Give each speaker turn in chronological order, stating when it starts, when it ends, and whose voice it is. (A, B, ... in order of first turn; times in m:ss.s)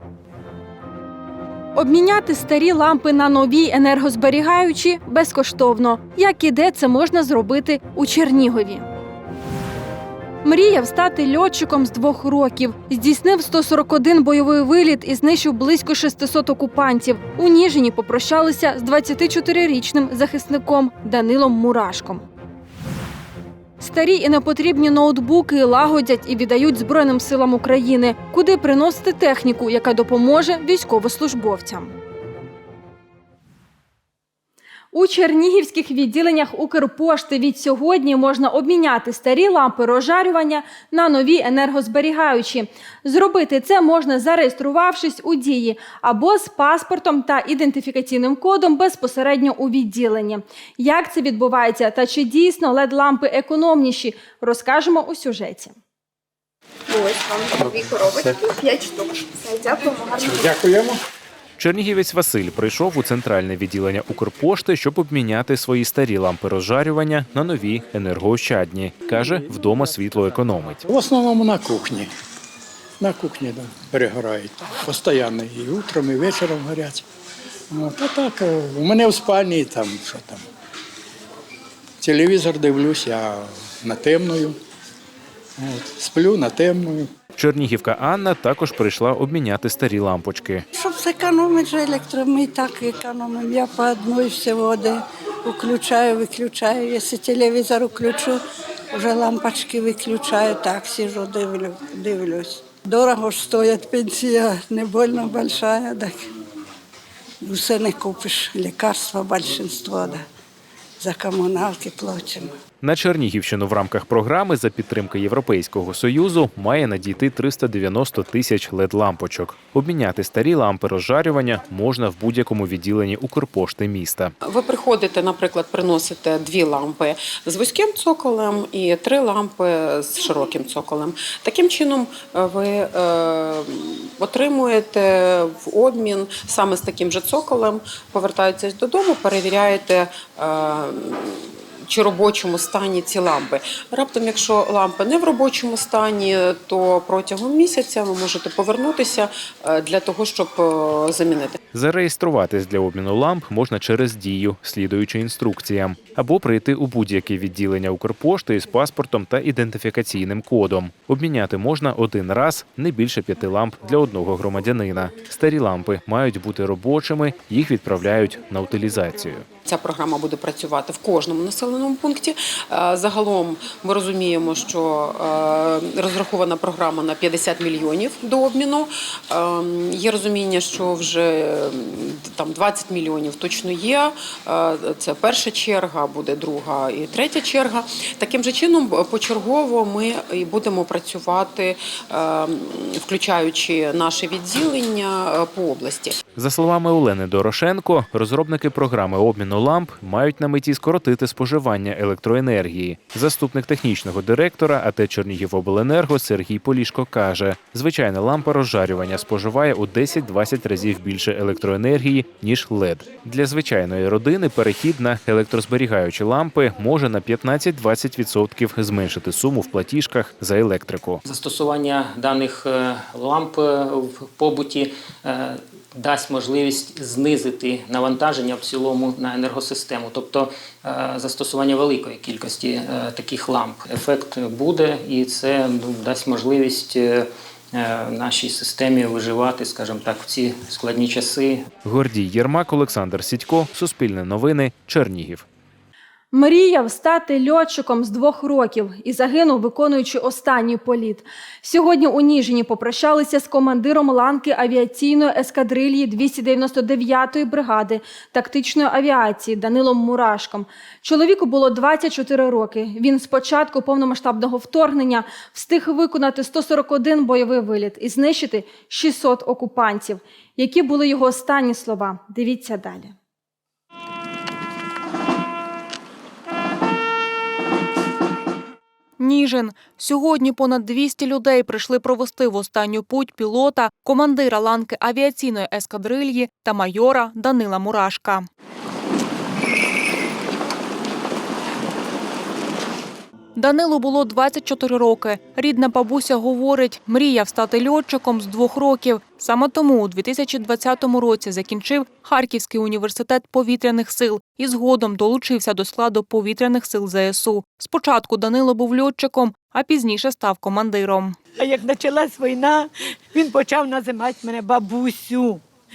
0:01.7-0:08.9 A
0:10.4-0:22.2 A
0:23.8-0:32.0 A
0:34.9-0:55.8 A
0:56.9-1:00.7 B
0:57.8-0:58.2 C
1:00.2-1:01.0 C
1:01.6-1:10.8 D
1:09.2-1:09.5 C
1:10.8-1:12.1 C
1:13.0-1:17.0 C
1:17.7-1:20.4 C
1:22.0-1:24.6 C
1:25.6-1:27.1 C
1:27.4-1:30.6 D
1:30.8-1:38.4 E
1:39.0-1:46.2 E
1:47.4-1:50.2 E
1:51.0-1:52.5 E
1:52.8-2:04.3 D
2:04.4-2:31.6 F
2:31.7-2:49.5 D
2:49.6-3:16.2 F
3:16.4-3:41.2 D
3:41.2-4:01.6 G
4:01.8-4:05.4 D
4:06.3-4:33.1 A
4:39.2-4:48.5 H
4:53.6-5:11.4 H
5:11.6-5:15.6 I